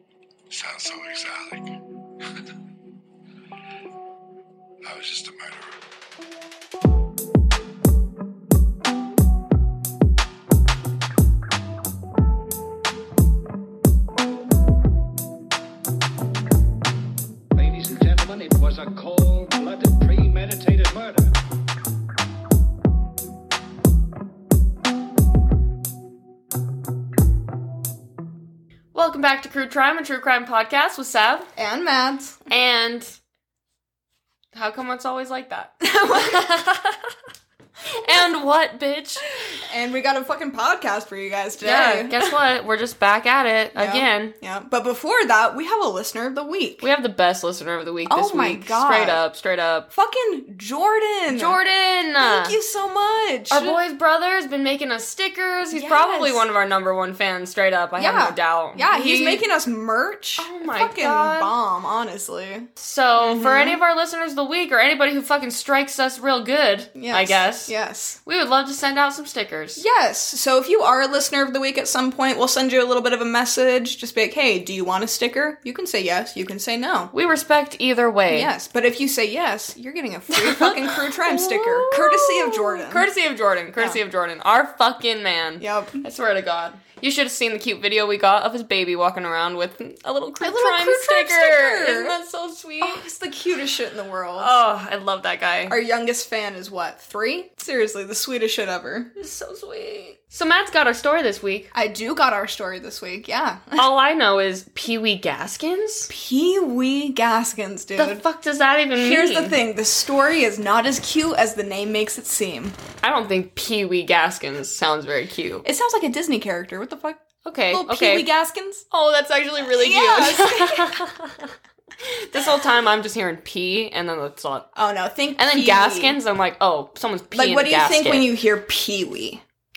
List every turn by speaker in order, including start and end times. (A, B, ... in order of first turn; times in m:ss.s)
0:00.5-0:01.8 A
0:04.8-0:05.8 A
0:17.6-0:21.3 B
0:28.9-0:31.5 C
0:31.6-0:32.4 D
0:32.5-0:33.2 C
0:34.5-0:37.1 C
0:35.8-0:36.4 D
0:37.9-0:39.2 C
0:39.5-0:42.3 D
0:41.6-0:44.3 C
0:43.7-0:46.8 D
0:46.8-0:49.9 C
0:48.1-0:49.2 D
0:49.9-0:51.6 D
0:51.3-0:52.6 C
0:52.2-0:53.8 D
0:53.5-0:59.4 C
0:55.7-0:56.4 D
0:58.0-1:03.8 D
1:00.4-1:01.5 C
1:02.8-1:07.7 C
1:06.9-1:08.2 D
1:08.2-1:09.8 C
1:09.8-1:17.1 D
1:17.1-1:18.5 C
1:18.3-1:23.1 D
1:20.3-1:33.0 C
1:25.6-1:26.0 D
1:30.4-1:32.2 D
1:32.8-1:34.5 D
1:34.4-1:35.8 C
1:35.7-1:39.1 D
1:39.2-1:41.7 C
1:41.7-1:43.8 D
1:43.8-1:46.1 C
1:46.1-1:48.2 D
1:48.0-1:49.6 C
1:49.0-1:52.8 D
1:53.0-1:55.6 C
1:55.6-1:58.8 D
1:57.4-1:58.3 C
1:58.9-2:04.7 C
1:59.8-2:01.0 D
2:04.7-2:06.2 D
2:05.4-2:08.3 C
2:07.3-2:09.4 D